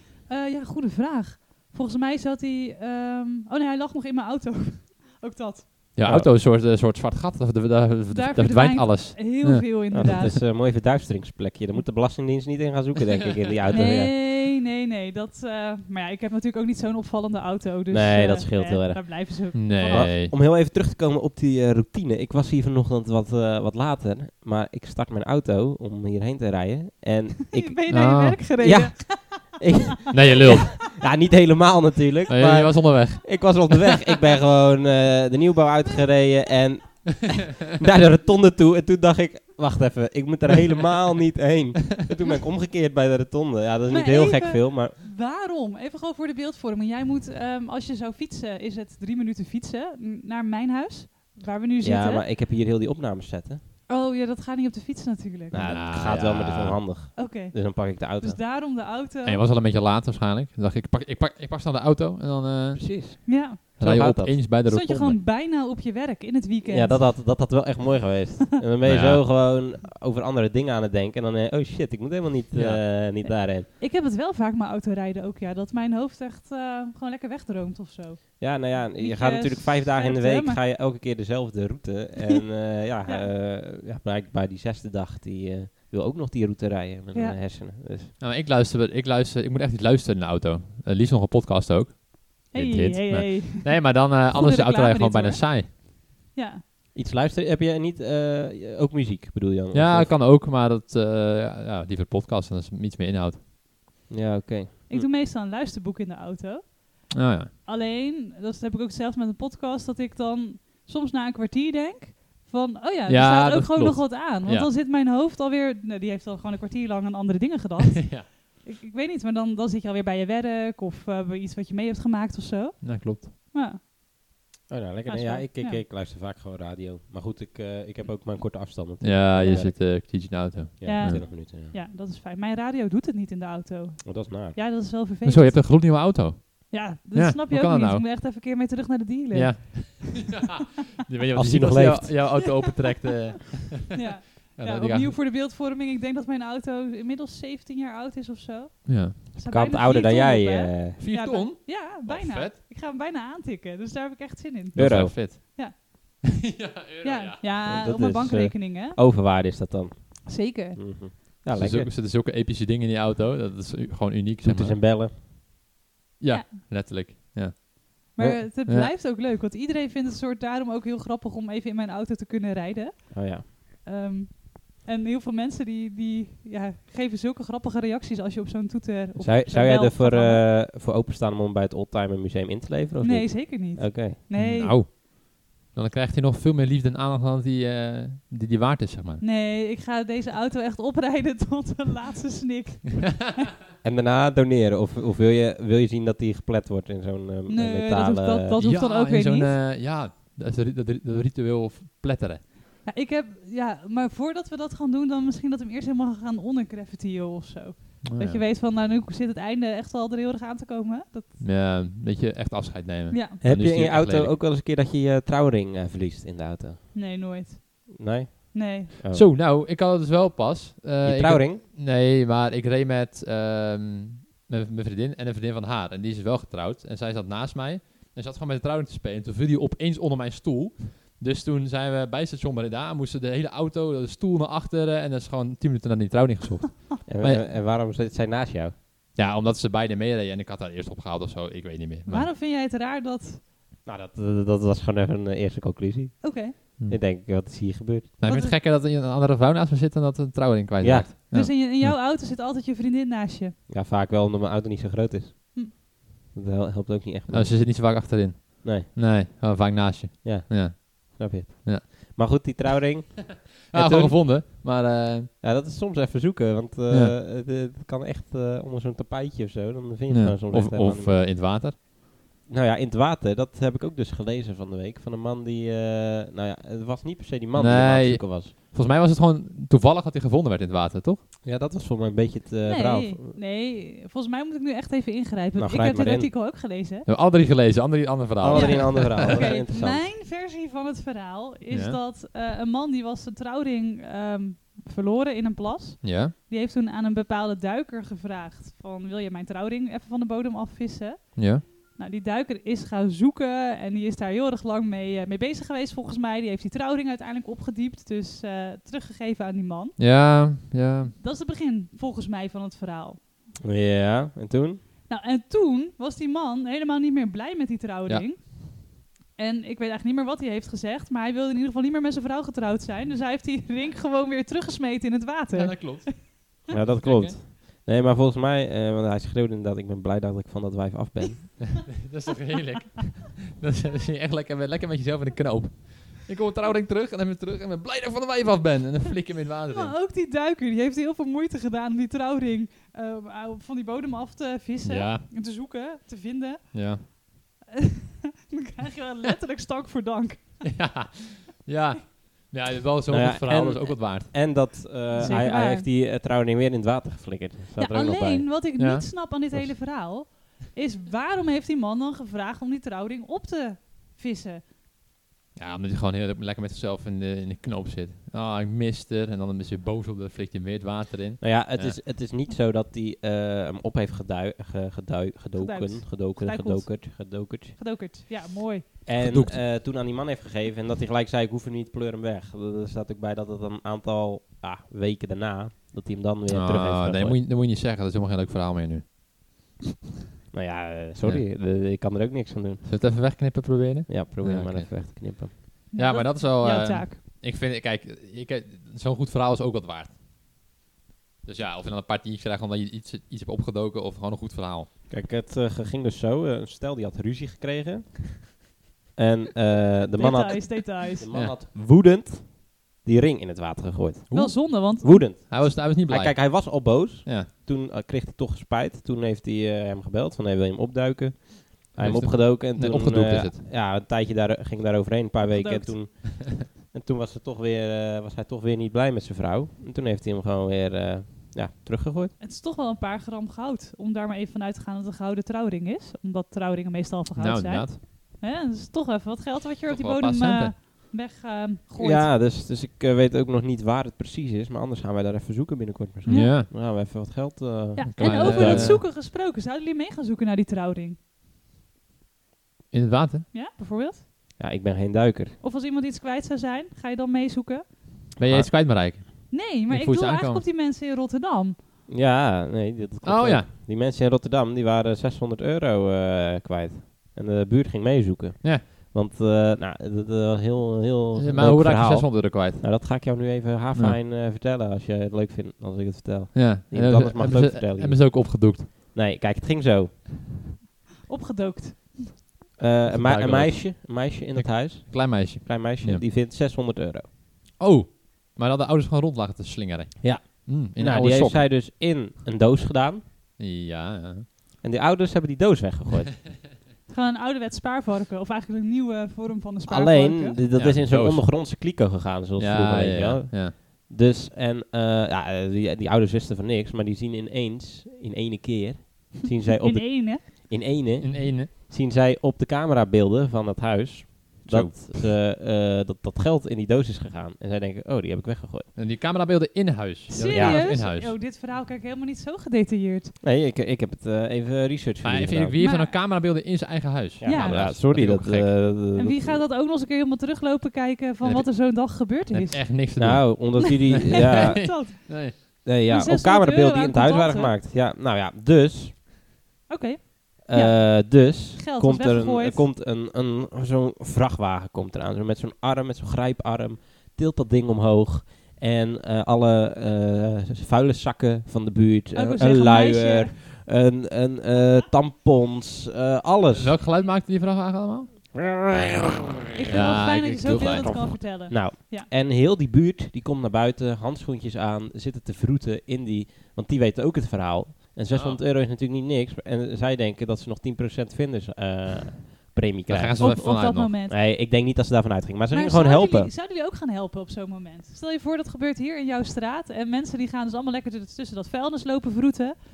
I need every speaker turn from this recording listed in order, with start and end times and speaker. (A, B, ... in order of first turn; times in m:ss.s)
0:00.3-0:05.8 A
0:05.9-0:10.2 B
0:06.0-0:06.3 C
0:08.1-0:10.4 A
0:09.9-0:14.1 C
0:13.7-0:20.1 A
0:17.9-0:27.8 C
0:19.5-0:20.3 B
0:27.5-0:29.7 A
0:27.9-0:28.4 B
0:28.6-0:45.0 C
0:30.1-0:30.9 B
0:32.3-0:33.8 B
0:43.9-0:52.3 A
0:51.8-0:53.6 C
0:53.9-0:55.6 A
0:55.5-0:58.4 C
0:55.5-0:56.8 B
0:57.2-0:59.4 A
0:59.2-1:03.0 B
1:02.7-1:04.4 C
1:03.3-1:03.6 A
1:03.8-1:05.2 B
1:04.6-1:07.2 A
1:06.6-1:13.7 C
1:08.8-1:09.2 B
1:12.5-1:13.0 B
1:13.2-1:20.6 A
1:18.4-1:28.1 C
1:27.1-1:27.4 A
1:28.2-1:35.7 B
1:32.5-1:36.6 A
1:36.9-1:40.1 C
1:39.7-1:43.4 B
1:44.1-1:45.1 C
1:44.9-2:03.8 A
1:47.1-1:47.5 B
1:53.1-1:54.7 B
1:58.0-1:58.3 B
2:02.8-2:03.3 B
2:04.7-2:10.0 C
2:05.1-2:05.8 A
2:09.0-2:11.2 B
2:09.4-2:09.7 A
2:10.8-2:11.7 C
2:10.8-2:20.0 A
2:14.0-2:14.6 C
2:15.2-2:18.0 B
2:19.3-2:20.4 B
2:21.1-2:23.9 B
2:21.3-2:22.2 C
2:22.9-2:23.1 A
2:23.9-2:36.2 A
2:24.5-2:25.2 B
2:28.9-2:29.2 B
2:29.4-2:31.0 C
2:31.0-2:32.6 B
2:34.7-2:35.8 B
2:34.8-2:35.2 C
2:36.5-2:37.4 B
2:37.0-2:39.0 A
2:37.6-2:41.9 C
2:40.3-2:40.8 A
2:41.5-2:44.8 B
2:44.4-2:45.1 C
2:46.2-2:48.9 B
2:48.2-3:00.4 A
2:53.1-2:53.4 C
2:59.2-3:04.2 C
3:03.0-3:04.8 A
3:04.3-3:09.2 B
3:09.2-3:13.4 A
3:13.8-3:18.6 C
3:17.5-3:19.6 A
3:18.6-3:22.4 B
3:22.8-3:31.4 A
3:28.0-3:28.4 B
3:31.4-3:34.3 B
3:33.1-3:33.4 A
3:33.4-3:36.9 C
3:36.9-3:37.9 A
3:38.0-3:39.3 C
3:38.5-3:38.9 A
3:39.1-3:57.4 B
3:41.0-3:41.6 C
3:57.0-3:58.7 C
3:59.1-4:02.3 B
4:02.0-4:03.4 A
4:03.8-4:08.2 C
4:06.2-4:06.6 A
4:08.2-4:12.0 B
4:08.2-4:08.5 A
4:10.8-4:11.1 C
4:11.3-4:13.6 A
4:13.7-4:15.8 C
4:16.3-4:17.8 C
4:17.3-4:21.9 B
4:18.6-4:18.9 C
4:20.2-4:24.4 C
4:23.7-4:25.3 B
4:25.4-4:31.1 C
4:30.1-4:31.8 B
4:32.5-4:38.5 C
4:37.5-4:41.2 B
4:41.4-4:43.4 C
4:42.6-4:47.1 A
4:45.6-4:46.3 C
4:47.0-4:49.4 B
4:48.4-4:50.1 C
4:48.5-5:10.5 A
4:51.7-4:52.0 B
4:56.0-4:56.3 B
5:01.4-5:01.6 B
5:10.0-5:11.1 B
5:11.2-5:13.2 A
5:13.6-5:14.8 C
5:15.1-5:26.1 A
5:25.5-5:27.4 B
5:26.7-5:31.7 C
5:31.8-5:39.9 B
5:39.7-5:47.1 A
5:44.8-5:45.3 B
5:46.7-5:47.0 B
5:48.5-5:50.8 A
5:50.7-5:55.4 B
5:53.1-5:58.6 C
5:55.1-5:55.9 A
5:57.8-6:04.6 A
5:58.8-5:59.2 B
6:05.6-6:12.0 B
6:11.4-6:17.8 C
6:15.6-6:18.9 A
6:19.0-6:27.4 C
6:19.2-6:19.6 B
6:26.5-6:29.2 B
6:30.5-6:32.8 C
6:32.8-6:35.4 B
6:34.1-6:35.5 C
6:35.9-6:37.2 A
6:35.9-6:40.2 B
6:41.4-6:44.9 B
6:45.1-6:48.6 C
6:49.2-7:12.3 C
6:50.1-6:51.3 A
6:54.3-6:54.8 B
6:54.3-6:55.2 A
6:55.4-6:57.5 B
7:02.0-7:03.6 B
7:05.5-7:06.0 A
7:12.4-7:22.3 A
7:17.4-7:18.0 B
7:19.9-7:20.8 B
7:22.0-7:29.0 C
7:26.2-7:26.6 A
7:26.3-7:26.7 B
7:28.0-7:31.2 A
7:28.1-7:29.0 B
7:32.9-7:33.5 B
7:33.5-7:34.2 A
7:34.6-7:35.6 C
7:35.6-7:38.2 A
7:38.4-7:40.6 B
7:38.4-7:38.7 C
7:39.5-7:41.8 A
7:42.1-8:00.2 C
7:43.2-7:43.7 B
7:51.4-7:52.9 B
7:56.5-7:58.9 B
8:01.3-8:02.3 A
8:02.8-8:07.3 C
8:03.1-8:06.2 B
8:07.8-8:11.7 B
8:10.2-8:13.2 C
8:13.6-8:14.5 B
8:14.8-8:16.3 C
8:17.1-8:20.6 A
8:19.9-8:38.9 C
8:20.7-8:21.9 B
8:22.6-8:23.8 B
8:29.8-8:30.4 A
8:31.2-8:31.7 B
8:34.6-8:35.2 B
8:38.9-8:41.4 B
8:40.3-8:43.3 A
8:40.5-8:40.9 C
8:43.4-8:45.8 C
8:45.2-8:49.0 B
8:45.8-8:46.2 A
8:47.4-8:49.6 C
8:47.4-8:47.9 A
8:49.1-8:53.0 A
8:51.4-8:55.5 B
8:53.1-8:54.9 C
8:54.0-8:57.7 A
8:55.8-8:59.2 C
8:59.9-9:02.9 A
9:00.6-9:17.0 C
9:12.3-9:13.5 A
9:16.7-9:18.3 B
9:18.6-9:19.2 C
9:19.8-9:22.3 A
9:19.8-9:33.7 C
9:19.9-9:21.4 B
9:28.3-9:28.6 B
9:33.1-9:34.1 B
9:33.4-9:34.4 A
9:34.2-9:36.5 C
9:35.7-9:42.8 A